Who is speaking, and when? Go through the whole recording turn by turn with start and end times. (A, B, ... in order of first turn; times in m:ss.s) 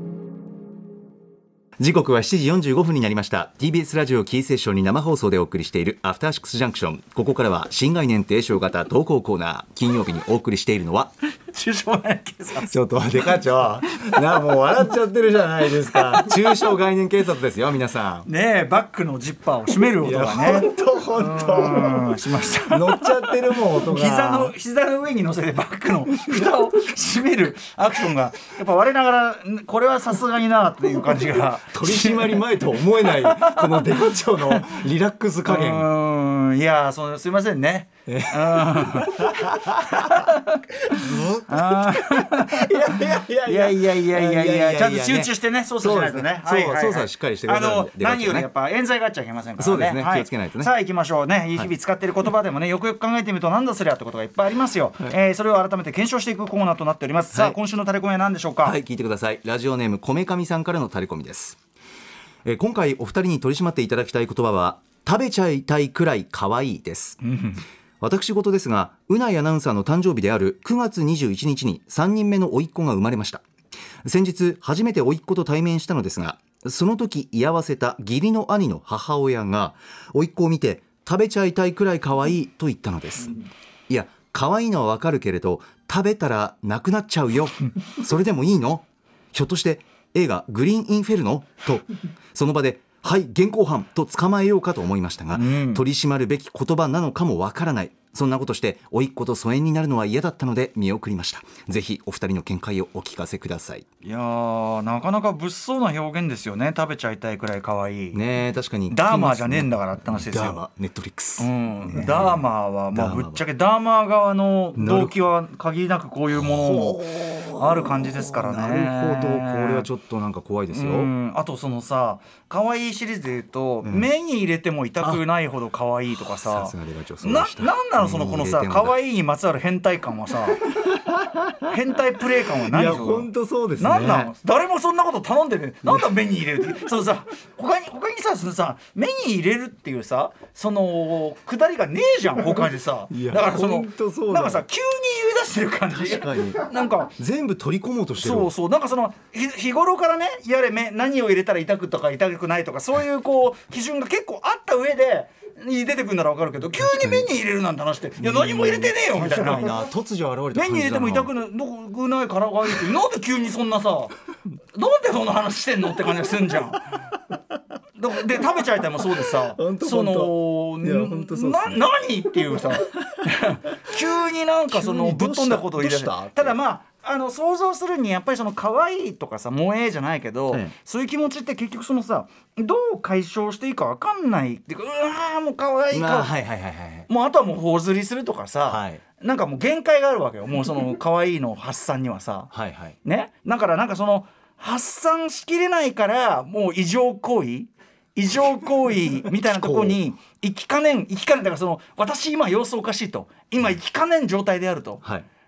0:01.8-0:11.1 A
0:11.3-0:13.4 B
0:12.7-0:18.3 A
0:13.9-0:14.4 B
0:15.9-0:16.3 B
0:18.2-0:34.8 B
0:20.0-0:24.5 A
0:31.7-0:35.9 A
0:35.4-0:58.8 B
0:38.1-0:40.2 A
0:40.9-0:48.5 A
0:49.6-0:50.7 A
0:57.3-0:57.6 A
0:58.6-1:01.6 A
1:02.4-1:07.2 A
1:07.2-1:07.6 B
1:08.0-1:13.4 A
1:14.0-1:23.4 A
1:23.9-1:43.8 A
1:35.3-1:35.8 B
1:44.0-1:48.2 B
1:48.1-1:53.4 A
1:48.9-1:50.6 B
1:51.4-1:59.9 B
1:54.8-1:55.2 A
1:56.3-2:01.1 A
2:00.7-2:10.7 B
2:06.1-2:09.0 A
2:10.9-2:11.5 A
2:11.6-2:27.1 B
2:12.7-2:14.3 A
2:15.8-2:16.1 A
2:22.4-2:24.6 A
2:25.9-2:28.5 A
2:28.2-2:39.9 B
2:36.6-2:37.3 A
2:38.2-2:41.3 A
2:40.5-2:44.1 B
2:44.7-2:46.9 B
2:48.0-3:06.3 B
2:49.2-2:51.9 A
2:54.7-2:56.6 A
3:05.9-3:07.1 A
3:07.1-3:12.5 B
3:08.7-3:09.0 A
3:12.5-3:13.0 A
3:13.0-3:25.0 B
3:19.3-3:20.0 A